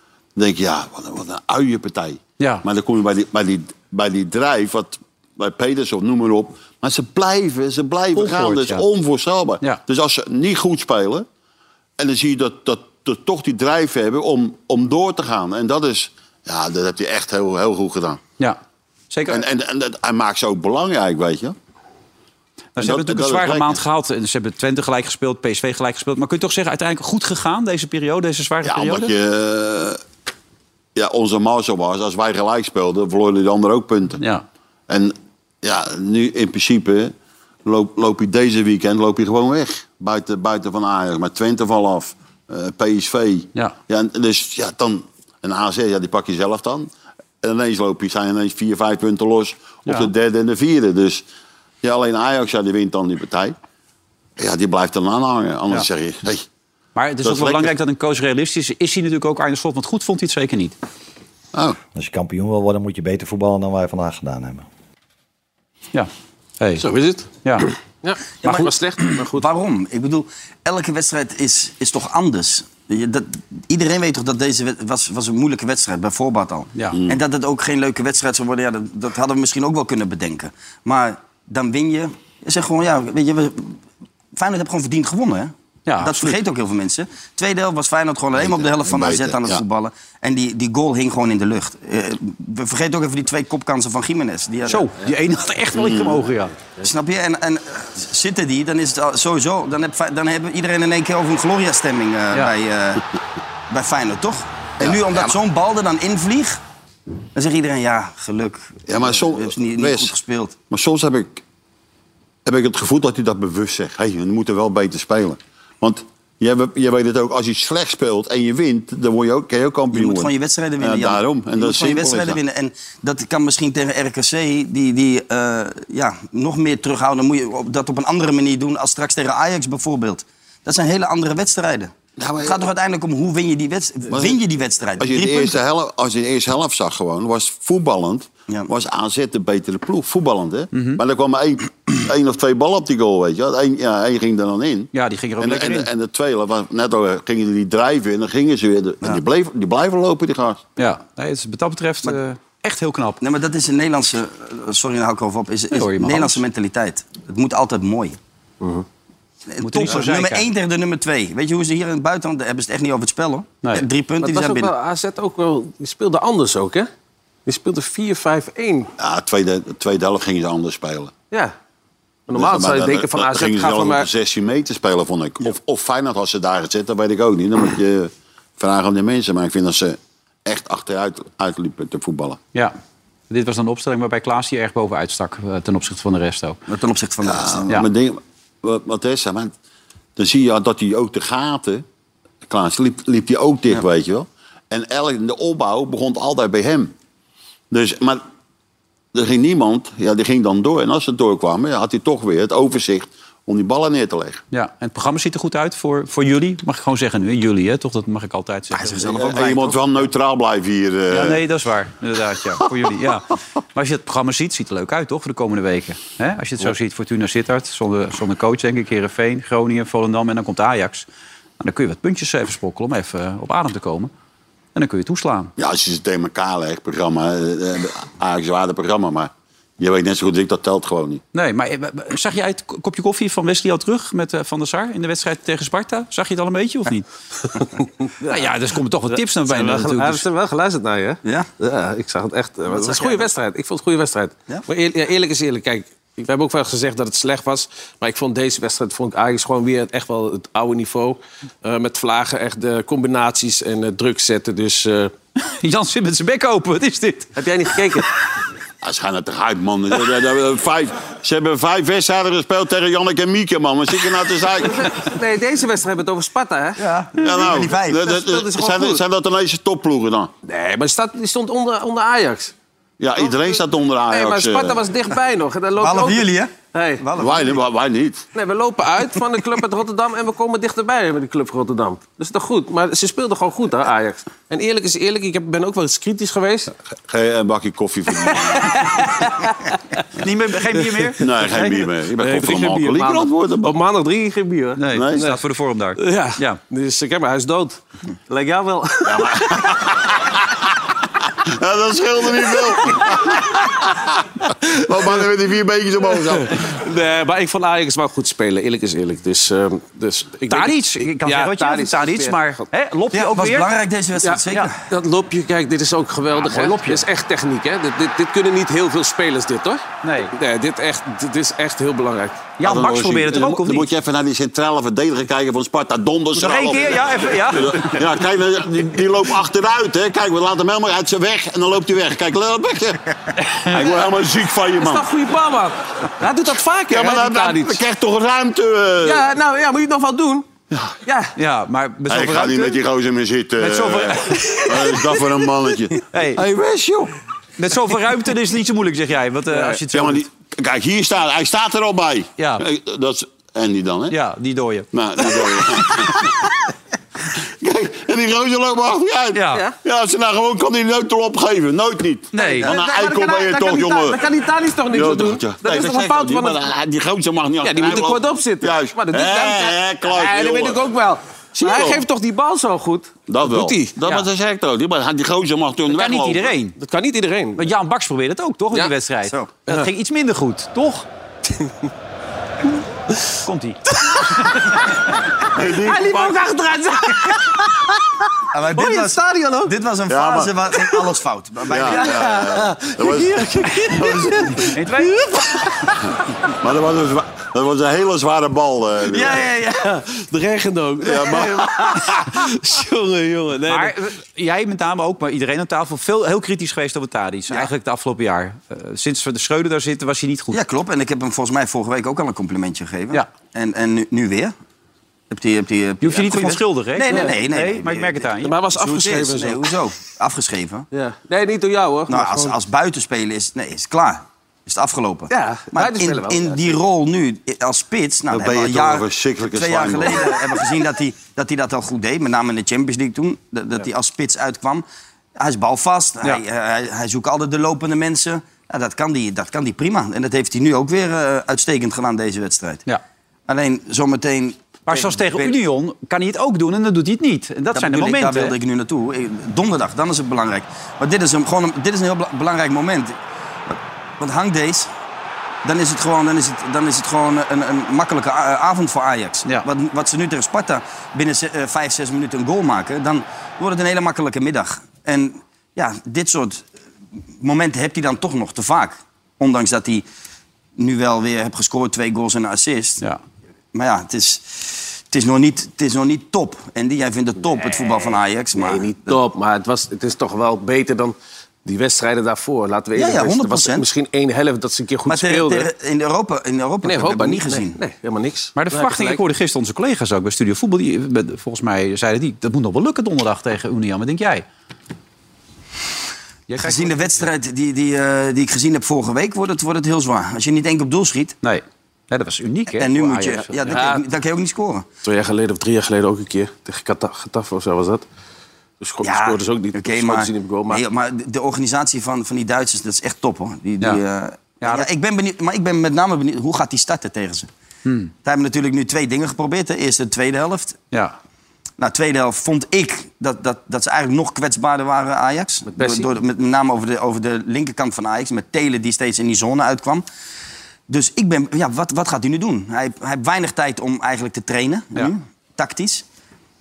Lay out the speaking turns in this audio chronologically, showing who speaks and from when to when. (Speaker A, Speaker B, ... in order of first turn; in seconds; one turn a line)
Speaker A: 0.4-11.3
Speaker B: 2.4-2.6
Speaker B: 8.2-8.8
Speaker A: 12.0-18.2
Speaker B: 19.1-19.4
Speaker A: 19.3-21.6
Speaker B: 22.8-29.1
Speaker A: 22.8-23.8
Speaker A: 28.6-30.0
Speaker A: 31.0-34.2
Speaker A: 34.9-37.1
Speaker A: 37.6-46.9
Speaker A: 47.4-51.2
Speaker A: 51.8-53.6
Speaker A: 54.4-56.5
Speaker B: 57.0-60.8
Speaker A: 57.2-57.7
Speaker C: 62.0-64.7
Speaker B: 65.9-66.8
Speaker D: 66.8-69.5
Speaker E: 69.3-83.8
Speaker A: 76.9-77.2
Speaker E: 84.3-94.8
Speaker B: 85.9-86.4
Speaker A: 88.4-89.6
Speaker B: 94.7-96.5
Speaker A: 95.7-96.3
Speaker E: 96.8-103.0
Speaker E: 103.7-106.6
Speaker A: 104.8-105.3
Speaker E: 107.3-110.6
Speaker A: 108.9-110.1
Speaker A: 110.7-111.4
Speaker A: 112.5-122.4
Speaker E: 119.9-135.6
Speaker A: 132.2-132.7
Speaker A: 134.1-134.4
Speaker A: 135.0-150.6
Speaker B: 140.7-141.0
Speaker B: 144.9-145.9
Speaker B: 150.8-153.2
Speaker E: 153.2-158.2
Speaker B: 155.7-156.4
Speaker E: 159.5-164.7
Speaker B: 159.6-160.5
Speaker D: 164.2-166.9
Speaker D: 167.5-168.9
Speaker A: 169.0-171.1
Speaker D: 172.3-174.1
Speaker A: 172.3-182.4
Speaker B: 183.3-186.6
Speaker E: 186.7-187.7
Speaker A: 187.2-189.5
Speaker A: 190.2-191.8
Speaker A: 192.5-196.9
Speaker A: 197.7-198.2
Speaker A: 199.1-204.4
Speaker B: 204.5-209.0
Speaker E: 208.7-209.8
Speaker A: 209.0-211.4
Speaker B: 211.1-221.1
Speaker B: 221.6-224.1
Speaker B: 224.8-225.5
Speaker A: 225.6-231.2
Speaker B: 231.3-237.1
Speaker D: 238.2-238.5
Speaker B: 238.3-240.2
Speaker D: 239.1-255.1
Speaker E: 242.7-243.3
Speaker B: 255.4-257.4
Speaker D: 257.4-258.1
Speaker A: 258.8-264.8
Speaker D: 264.7-266.9
Speaker E: 266.8-268.1
Speaker A: 267.2-270.3
Speaker D: 268.1-269.0
Speaker D: 270.5-272.5
Speaker A: 273.0-274.8
Speaker D: 274.1-277.0
Speaker E: 275.8-277.6
Speaker A: 277.2-278.3
Speaker D: 278.3-286.7
Speaker A: 287.1-288.8
Speaker D: 288.3-289.7
Speaker B: 290.2-291.3
Speaker A: 291.2-293.8
Speaker D: 292.2-295.4
Speaker B: 294.8-296.6
Speaker A: 294.9-295.3
Speaker D: 296.0-299.4
Speaker A: 299.1-300.4
Speaker A: 301.4-304.1
Speaker A: 304.7-306.6
Speaker D: 306.3-312.6
Speaker B: 310.5-313.7
Speaker E: 313.1-314.8
Speaker D: 314.2-322.5
Speaker B: 316.4-317.0
Speaker B: 320.0-320.3
Speaker B: 322.6-323.9
Speaker A: 322.6-333.1
Speaker B: 326.4-328.0
Speaker B: 333.4-333.8
Speaker A: 333.7-335.1
Speaker D: 334.8-337.8
Speaker A: 336.9-339.2
Speaker D: 339.0-340.5
Speaker D: 341.1-341.3
Speaker B: 341.4-342.8
Speaker A: 342.1-347.1
Speaker B: 343.6-344.6
Speaker B: 346.1-346.4
Speaker B: 347.6-350.3
Speaker D: 349.5-349.8
Speaker A: 349.9-354.1
Speaker B: 352.4-352.6
Speaker B: 354.1-355.4
Speaker A: 354.9-356.4
Speaker A: 357.6-364.2
Speaker B: 359.3-359.6
Speaker B: 362.3-362.7
Speaker D: 362.4-366.6
Speaker A: 364.9-370.8
Speaker D: 367.6-373.9
Speaker A: 371.6-372.0
Speaker A: 373.3-376.5
Speaker B: 375.9-376.8
Speaker D: 376.8-377.7
Speaker B: 377.6-381.1
Speaker D: 381.5-381.9
Speaker B: 383.4-384.6
Speaker D: 384.1-384.7
Speaker A: 385.5-386.4
Speaker D: 385.6-388.0
Speaker E: 388.5-392.2
Speaker D: 388.8-389.7
Speaker A: 390.1-390.6
Speaker A: 391.7-394.4
Speaker D: 392.1-395.9
Speaker B: 394.7-395.1
Speaker A: 396.6-399.5
Speaker D: 399.1-403.9
Speaker A: 401.0-402.1
Speaker B: 403.7-410.6
Speaker E: 410.5-414.5
Speaker E: 415.3-420.9
Speaker B: 416.0-418.6
Speaker D: 417.1-417.4
Speaker D: 418.4-419.7
Speaker D: 420.9-422.6
Speaker E: 422.1-434.9
Speaker D: 425.3-426.7
Speaker A: 428.3-430.4
Speaker E: 435.4-442.9
Speaker E: 443.5-445.5
Speaker B: 444.9-448.6
Speaker E: 447.7-453.2
Speaker E: 453.7-454.9
Speaker E: 455.6-466.7
Speaker E: 467.4-470.1
Speaker E: 470.8-473.0
Speaker E: 473.7-479.2
Speaker D: 478.0-485.7
Speaker E: 482.9-483.9
Speaker E: 485.1-487.8
Speaker D: 486.8-489.2
Speaker B: 488.6-494.4
Speaker B: 496.5-497.2
Speaker E: 496.6-501.4
Speaker B: 501.4-503.8
Speaker E: 502.7-504.9
Speaker D: 503.7-504.0
Speaker D: 505.0-508.0
Speaker D: 508.8-510.8
Speaker E: 509.0-517.5
Speaker B: 514.6-514.9
Speaker B: 517.9-518.1
Speaker E: 518.2-520.8
Speaker E: 521.8-530.0
Speaker D: 525.7-526.1
Speaker E: 530.9-536.0